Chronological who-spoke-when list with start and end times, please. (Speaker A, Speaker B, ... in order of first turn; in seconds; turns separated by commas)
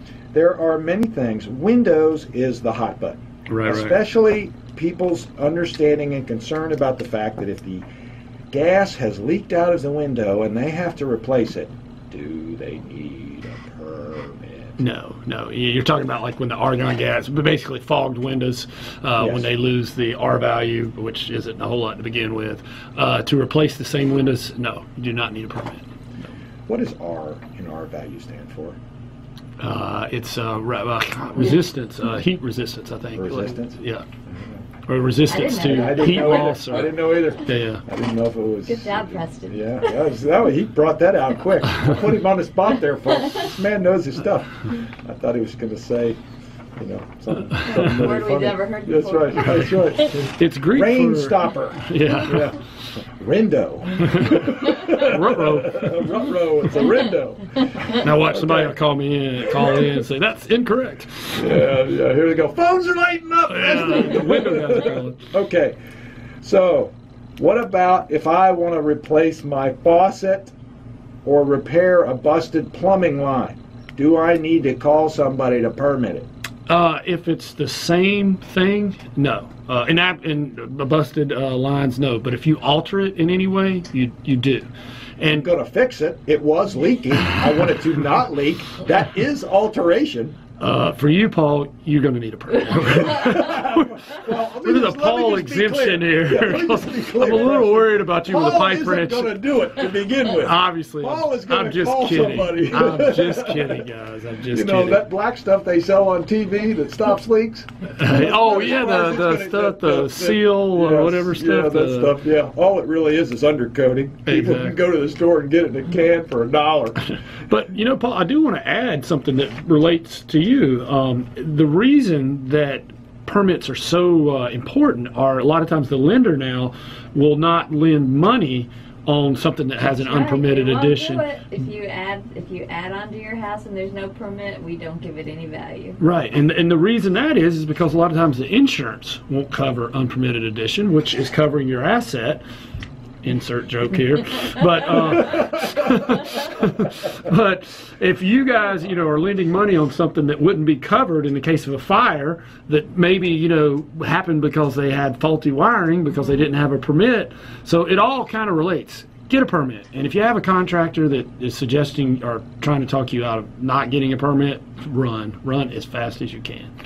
Speaker A: 0.3-7.9, Speaker B: 3.5-4.0, Speaker A: 8.5-14.8, Speaker B: 14.8-25.9, Speaker A: 19.2-19.5, Speaker A: 26.7-28.8, Speaker B: 29.6-34.1, Speaker A: 33.1-34.6, Speaker B: 34.9-37.8, Speaker C: 35.3-36.8, Speaker A: 35.6-46.2, Speaker C: 38.7-40.1, Speaker A: 46.8-58.8, Speaker C: 47.6-50.1, Speaker B: 49.6-52.6, Speaker B: 54.0-56.2, Speaker B: 57.9-61.5, Speaker A: 59.5-59.9, Speaker A: 61.4-65.8, Speaker B: 63.5-65.2, Speaker A: 66.4-70.5, Speaker A: 71.2-76.3, Speaker B: 76.7-84.7, Speaker B: 85.2-85.5, Speaker A: 85.3-90.4, Speaker B: 90.6-105.0, Speaker A: 93.2-103.8, Speaker A: 104.5-117.1, Speaker B: 108.0-112.2, Speaker B: 114.2-114.8, Speaker B: 117.4-131.3, Speaker C: 129.8-136.0, Speaker B: 136.0-142.4, Speaker B: 143.2-166.7